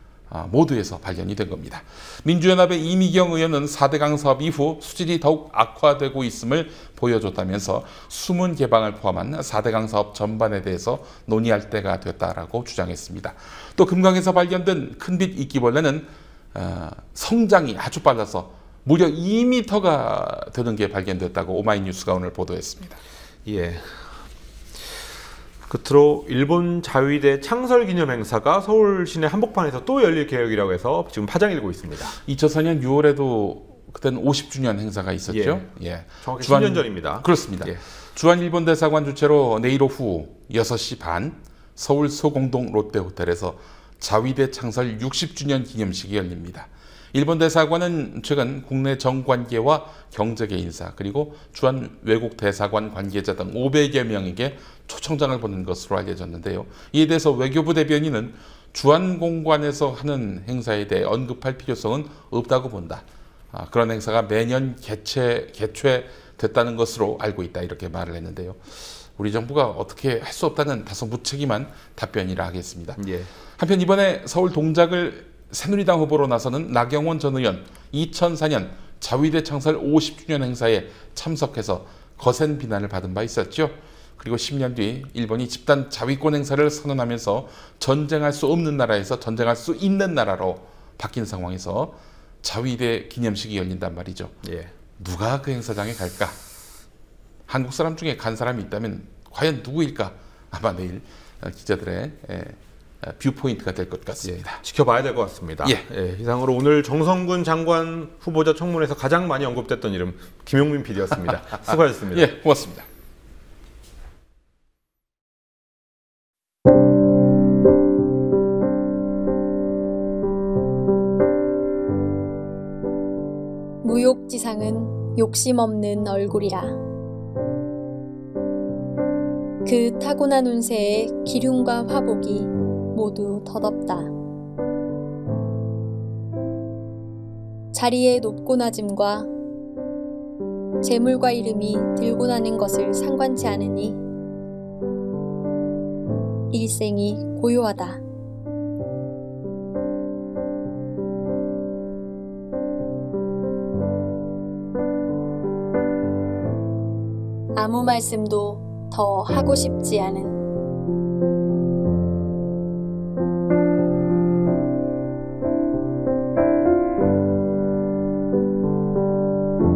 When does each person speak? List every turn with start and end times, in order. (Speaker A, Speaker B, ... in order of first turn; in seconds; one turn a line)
Speaker A: 0.3-23.0
Speaker B: 23.4-24.2
Speaker B: 25.6-32.1
Speaker A: 32.2-73.0
Speaker B: 35.3-35.7
Speaker B: 36.2-37.8
Speaker B: 73.0-73.3
Speaker A: 73.5-94.4
Speaker B: 94.4-94.7
Speaker A: 95.0-96.4
Speaker A: 97.5-104.6
Speaker B: 104.2-112.3
Speaker A: 112.1-112.8
Speaker C: 123.8-126.8
Speaker C: 129.6-134.1
Speaker C: 137.7-139.3
Speaker C: 140.8-144.0
Speaker C: 146.5-148.0
Speaker C: 157.6-160.4